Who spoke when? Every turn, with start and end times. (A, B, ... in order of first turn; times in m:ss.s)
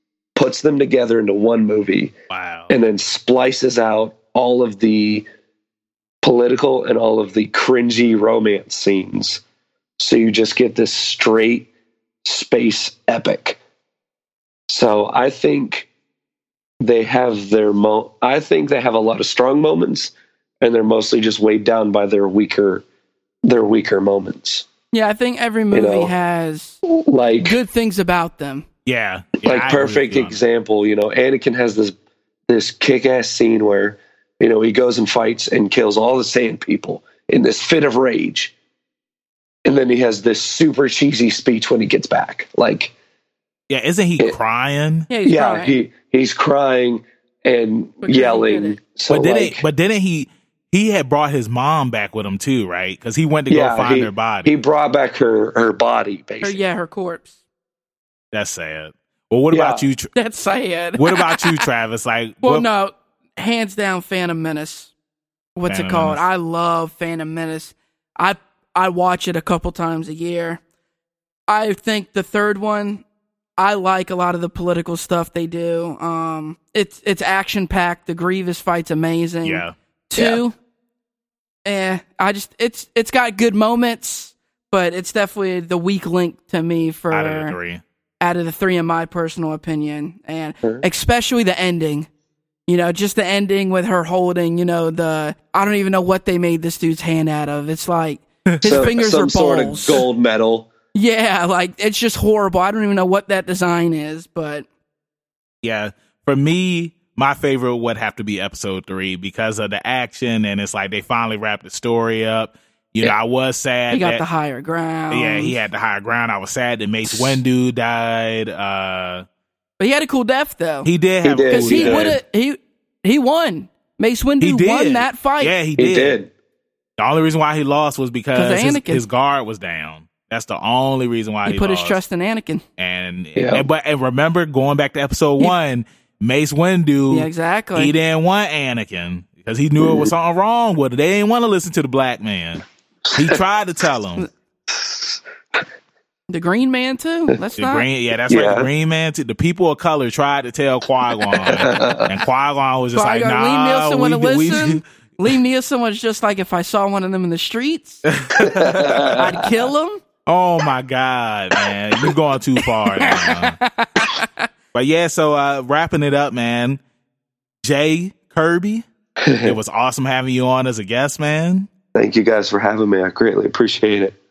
0:00.4-0:02.1 A
0:02.3-0:02.7 B
0:02.7-0:05.2 A
0:06.2-0:09.4 A
0:10.0-0:11.7 A
0:12.2-0:13.6 A
0:14.7-0:15.9 A
0:16.8-0:22.8 A
0:23.4-0:24.7 A
0:24.9-0:26.8 C
0:25.7-0:26.1 A
0:26.9-0:27.6 A
0:27.4-0:28.6 C
0:28.8-0:30.4 B
0:29.4-0:32.0 A
0:32.5-0:38.5 A
0:39.6-0:42.9 A
0:43.7-0:45.1 B
0:45.1-0:45.7 C
0:45.2-0:49.6 A
0:48.0-0:48.8 C
0:49.1-0:54.5 B
0:53.5-0:56.6 A
0:56.4-0:57.3 C
0:58.3-1:00.1 B
0:59.5-0:59.8 A
1:00.1-1:01.6 C
1:01.0-1:02.6 B
1:02.4-1:04.9 C
1:05.6-1:10.6 C
1:05.7-1:06.2 B
1:11.5-1:13.0 C
1:13.6-1:20.6 C
1:19.4-1:19.7 B
1:21.6-1:27.6 C
1:27.1-1:27.8 B
1:28.2-1:32.1 C
1:32.7-1:40.0 C
1:38.5-1:38.9 B
1:38.6-1:40.7 A
1:40.9-1:44.6 C
1:45.6-1:54.2 B
1:53.9-1:55.6 C
1:55.1-1:59.2 B
1:59.8-2:00.9 C
2:00.8-2:02.2 B
2:01.2-2:02.2 A
2:01.5-2:05.5 C
2:04.4-2:06.2 B
2:05.8-2:06.3 A
2:07.0-2:12.0 B
2:08.3-2:09.0 C
2:11.4-2:12.6 C
2:12.8-2:24.3 B
2:13.3-2:13.6 A
2:17.1-2:17.9 C
2:19.8-2:20.1 A
2:23.1-2:23.4 A
2:24.7-2:25.6 A
2:26.3-2:27.8 C
2:27.6-2:34.8 B
2:28.3-2:28.7 A
2:31.4-2:32.1 A
2:32.9-2:38.0 C
2:38.1-2:39.2 B
2:38.4-2:39.3 A
2:39.1-2:40.0 C
2:40.2-2:43.6 B
2:42.6-2:44.5 C
2:44.7-2:46.8 B
2:47.6-2:48.8 B
2:49.2-2:49.6 A
2:49.4-2:51.7 B
2:51.9-2:54.2 A